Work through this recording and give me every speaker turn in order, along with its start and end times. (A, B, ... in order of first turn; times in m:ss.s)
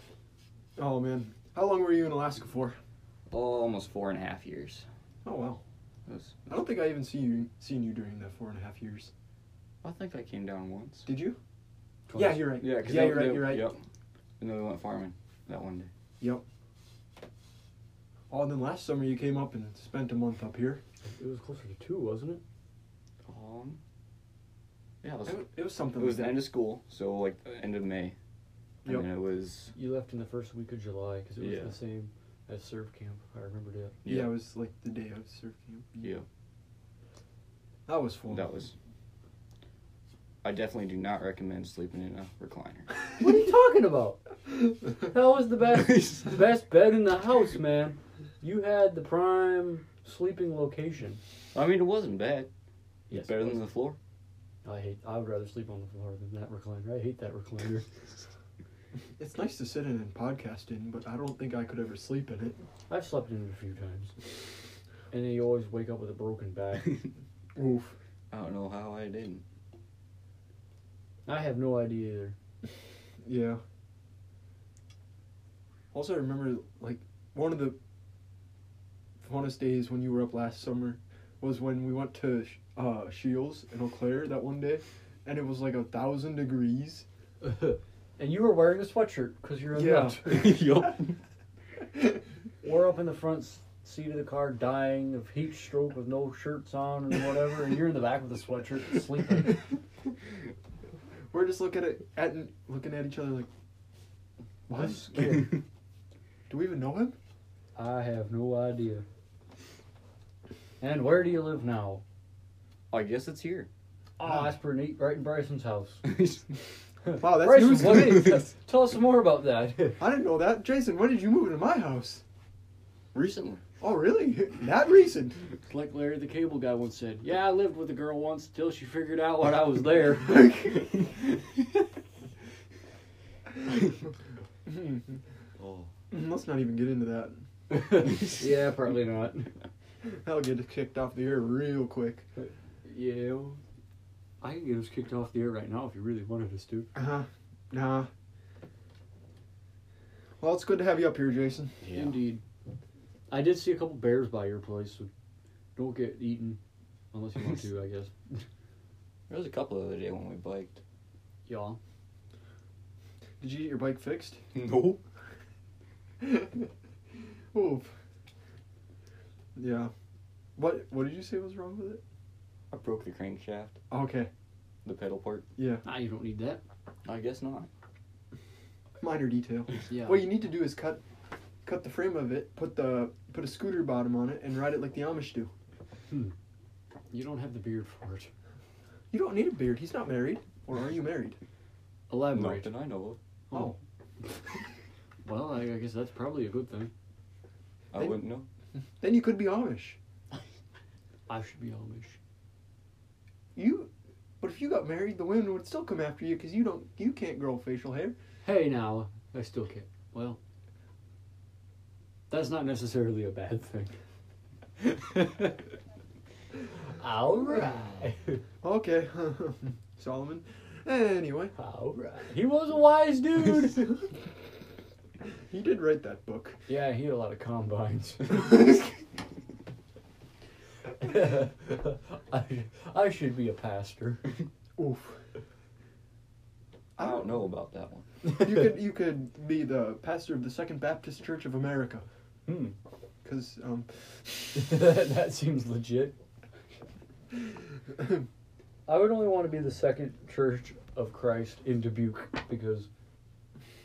0:00.8-0:02.8 A
0:03.3-0:04.8 B
0:05.2-0:05.6 A
0:06.1-0:06.5 B
0:06.5-0:09.1 A
0:09.8-0:11.1 B
0:11.0-0:11.4 A
0:12.1-0:12.6 C
0:12.1-0:13.7 A
0:12.6-0:13.8 B
0:14.4-0:15.9 B
0:18.3-0:20.8 A
0:21.0-0:22.4 C
0:23.2-0:23.8 B
0:25.0-0:28.2 B
0:25.3-0:26.4 A
0:28.8-0:29.7 B
0:29.7-0:34.0 C
0:31.4-0:31.7 B
0:34.0-0:34.3 B
0:34.0-0:36.0 A
0:36.0-0:36.2 B
0:37.9-0:38.4 A
0:38.3-0:38.7 B
0:40.4-0:43.0 B
0:43.2-0:51.2 C
0:45.7-0:46.3 B
0:51.5-0:52.5 B
0:53.1-0:53.6 C
0:53.1-0:54.0 B
0:54.6-0:57.9 C
0:59.2-1:02.6 A
1:02.9-1:04.2 C
1:05.1-1:07.1 C
1:07.6-1:07.9 A
1:08.3-1:09.4 B
1:11.2-1:12.4 C
1:13.2-1:13.6 A
1:15.9-1:17.8 A
1:19.2-1:27.0 A
1:27.4-1:30.6 C
1:29.7-1:30.4 A
1:30.2-1:31.2 B
1:32.6-1:39.6 C
1:41.3-1:43.5 A
1:44.7-1:45.4 A
1:44.7-1:45.5 C
1:46.5-1:47.2 A
1:47.8-1:49.0 C
1:50.8-1:52.0 C
1:52.9-1:53.7 B
1:54.2-1:56.0 C
1:56.0-1:56.6 B
1:57.0-2:00.0 C
1:57.2-1:58.4 A
1:57.8-1:58.5 B
2:00.0-2:02.2 A
2:03.1-2:03.6 B
2:03.8-2:05.4 A
2:05.7-2:11.1 C
2:14.6-2:15.2 A
2:15.6-2:15.9 B
2:16.1-2:17.4 A
2:17.7-2:19.5 C
2:20.0-2:22.2 A
2:22.4-2:23.6 C
2:24.4-2:26.9 C
2:26.9-2:28.1 A
2:30.4-2:31.8 A
2:31.8-2:32.2 B
2:31.9-2:32.4 C
2:33.3-2:35.1 C
2:35.8-2:36.6 C
2:37.1-2:38.1 C
2:39.3-2:40.8 B
2:41.5-2:41.8 C
2:43.4-2:44.4 A
2:44.5-2:45.0 B
2:46.2-2:46.7 A
2:47.5-2:47.9 A
2:49.6-2:49.9 A
2:50.6-2:52.0 A
2:52.7-2:53.8 B
2:53.9-2:54.3 A
2:54.8-2:55.5 B
2:55.6-2:55.8 A
2:55.8-2:56.6 C
2:57.0-2:57.7 B
2:59.0-3:01.0 A
2:59.9-3:00.2 C
3:01.6-3:05.5 A
3:07.1-3:08.3 C
3:09.1-3:11.4 A
3:12.1-3:12.7 C
3:12.3-3:13.2 B
3:13.5-3:13.8 A
3:15.2-3:16.9 C
3:17.9-3:18.4 B
3:19.0-3:20.0 A
3:21.3-3:22.2 C
3:23.6-3:28.2 A
3:28.4-3:30.4 C
3:32.3-3:33.9 C
3:34.8-3:35.6 C
3:37.0-3:38.4 C
3:38.6-3:41.5 A
3:41.6-3:44.0 C
3:45.5-3:46.6 A
3:46.7-3:48.6 C
3:51.0-3:54.3 C
3:54.8-3:55.2 A
3:57.0-3:57.3 A
3:57.0-3:58.1 B
3:58.3-4:02.0 A
4:02.5-4:02.8 C
4:03.2-4:04.6 A
4:04.5-4:06.2 C
4:08.0-4:08.2 A
4:08.9-4:12.9 C